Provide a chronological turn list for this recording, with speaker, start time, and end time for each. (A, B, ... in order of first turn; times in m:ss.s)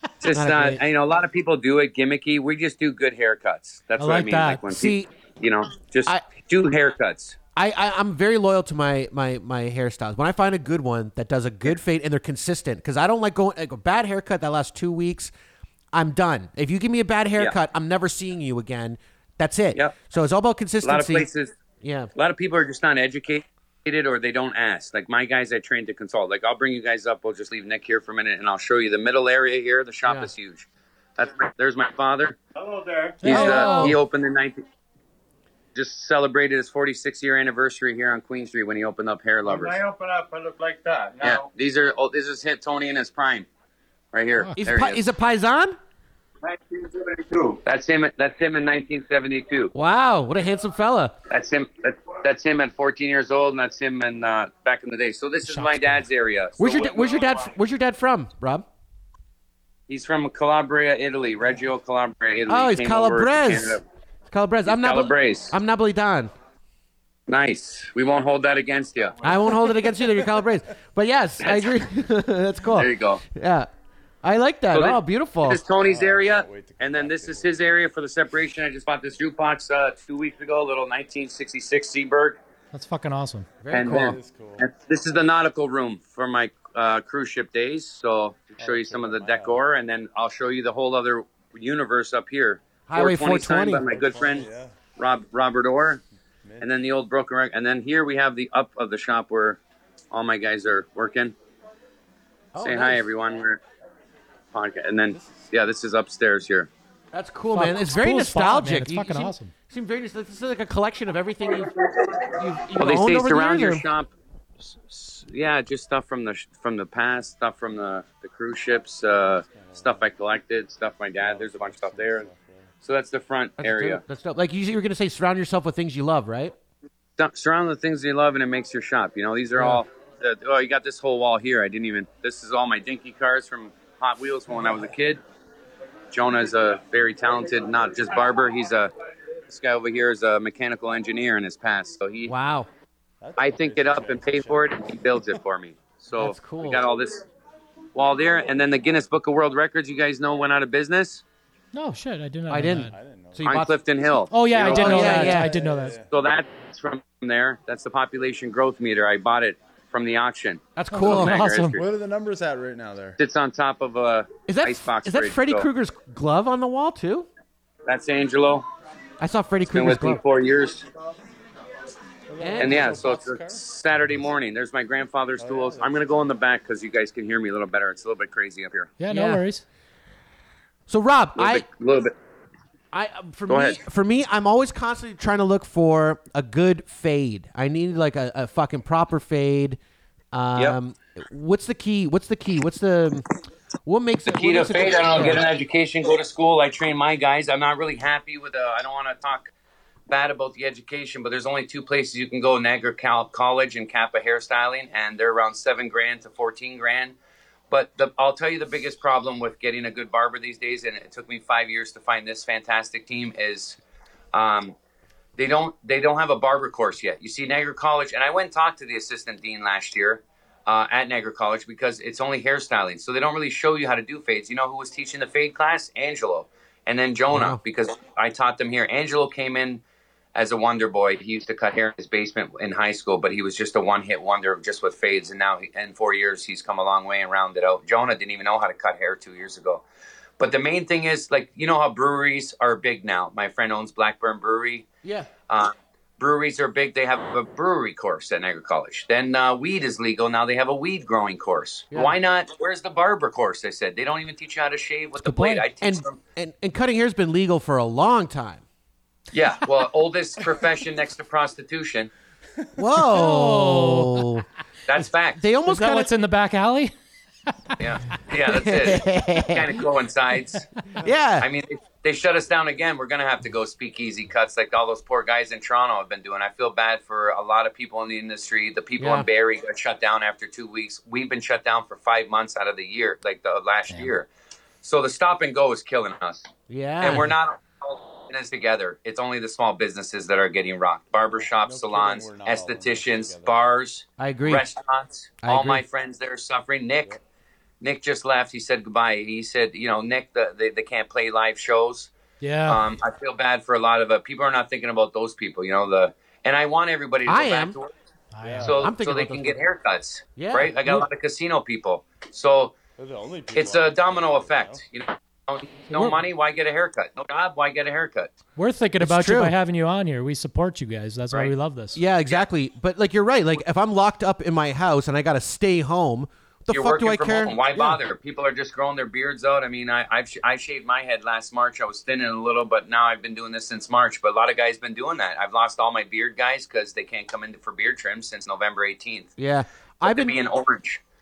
0:00.2-0:07.4 A
0:00.3-0:00.8 B
0:04.0-0:04.6 C
0:04.7-0:05.1 B
0:07.6-0:15.3 B
0:15.9-0:21.3 B
0:20.8-0:21.5 A
0:21.8-0:22.1 B
0:22.2-0:32.4 A
0:30.0-0:30.3 B
0:32.6-0:33.2 D
0:33.2-0:34.0 C
0:33.2-0:34.6 A
0:33.3-0:34.0 B
0:35.8-0:39.8 A
0:39.4-0:41.5 D
0:41.2-0:43.5 A
0:44.1-0:45.0 A
0:44.4-0:44.6 C
0:44.5-0:45.8 B
0:46.4-0:47.6 D
0:47.6-0:49.7 A
0:49.7-0:51.2 B
0:51.3-0:57.5 A
0:55.4-0:56.1 C
0:56.6-0:58.6 B
0:59.9-1:03.8 A
1:02.5-1:06.3 B
1:04.7-1:05.6 A
1:07.3-1:09.3 A
1:09.2-1:13.7 B
1:11.4-1:11.7 A
1:12.7-1:13.2 A
1:14.2-1:15.6 B
1:14.7-1:22.4 A
1:15.8-1:17.9 E
1:22.7-1:23.5 C
1:23.6-1:24.2 B
1:23.7-1:36.0 A
1:23.8-1:24.7 E
1:28.6-1:29.6 E
1:32.9-1:33.8 B
1:33.7-1:34.8 E
1:36.4-1:36.7 E
1:36.6-1:39.6 A
1:40.1-1:41.3 A
1:42.5-1:43.0 B
1:42.6-1:43.6 A
1:44.5-1:46.7 A
1:45.1-1:45.4 E
1:47.1-1:51.7 B
1:47.5-1:49.5 C
1:52.3-1:53.8 B
1:52.7-1:54.1 A
1:54.7-2:02.3 A
1:59.1-2:00.1 E
2:01.2-2:02.8 E
2:02.8-2:04.0 A
2:03.6-2:06.6 B
2:07.2-2:15.2 A
2:09.6-2:09.8 B
2:16.1-2:18.9 A
2:19.5-2:22.3 A
2:22.3-2:22.7 B
2:23.2-2:25.4 E
2:23.4-2:27.2 A
2:26.2-2:26.8 B
2:28.0-2:31.2 A
2:31.7-2:32.9 C
2:32.5-2:33.8 B
2:32.9-2:33.9 E
2:33.4-2:35.2 A
2:34.3-2:36.0 C
2:34.4-2:36.1 E
2:34.6-2:35.5 B
2:36.1-2:41.8 A
2:40.8-2:41.4 B
2:40.9-2:41.8 C
2:41.7-2:43.2 E
2:43.2-2:45.7 A
2:44.5-2:47.3 B
2:47.9-2:48.7 A
2:49.2-2:50.2 B
2:49.7-2:50.8 A
2:52.3-2:54.3 E
2:52.4-2:53.0 B
2:52.6-2:58.9 A
2:55.4-2:56.2 E
2:59.0-2:59.6 C
2:59.1-2:59.4 B
3:00.9-3:01.7 B
3:01.4-3:02.1 A
3:02.9-3:09.8 B
3:03.5-3:03.8 A
3:10.3-3:13.2 B
3:13.9-3:15.5 B
3:14.2-3:19.5 A
3:20.1-3:27.2 A
3:27.7-3:33.8 A
3:34.3-3:34.8 A
3:35.4-3:49.8 A
3:47.3-3:47.6 B
3:50.4-3:59.8 A
4:00.4-4:04.9 A
4:05.0-4:05.3 B
4:05.5-4:16.2 A
4:11.9-4:12.2 B
4:15.2-4:15.7 C
4:15.8-4:18.6 B
4:19.3-4:22.1 A
4:22.8-4:24.4 B
4:23.1-4:24.3 C
4:24.9-4:25.4 A
4:25.4-4:26.1 B
4:25.7-4:26.9 C
4:27.8-4:30.7 A
4:28.5-4:29.7 B
4:31.0-4:31.5 B
4:31.4-4:44.3 A
4:39.0-4:39.3 B
4:44.8-4:46.5 A
4:46.7-4:47.4 B
4:47.0-4:57.2 A
4:51.3-4:53.7 E
4:54.2-4:54.6 B
4:55.4-4:55.8 B
4:57.8-5:02.1 A
5:02.4-5:02.8 C
5:02.7-5:07.9 A
5:07.3-5:07.8 B
5:08.3-5:08.7 C
5:08.4-5:08.9 E
5:08.6-5:12.8 A
5:08.7-5:09.6 B
5:10.4-5:11.0 B
5:13.0-5:14.8 E
5:13.5-5:18.3 A
5:15.9-5:16.2 C
5:18.6-5:22.0 C
5:19.0-5:19.6 B
5:21.9-5:28.0 B
5:26.7-5:39.3 A
5:39.4-5:40.4 B
5:40.0-5:41.0 A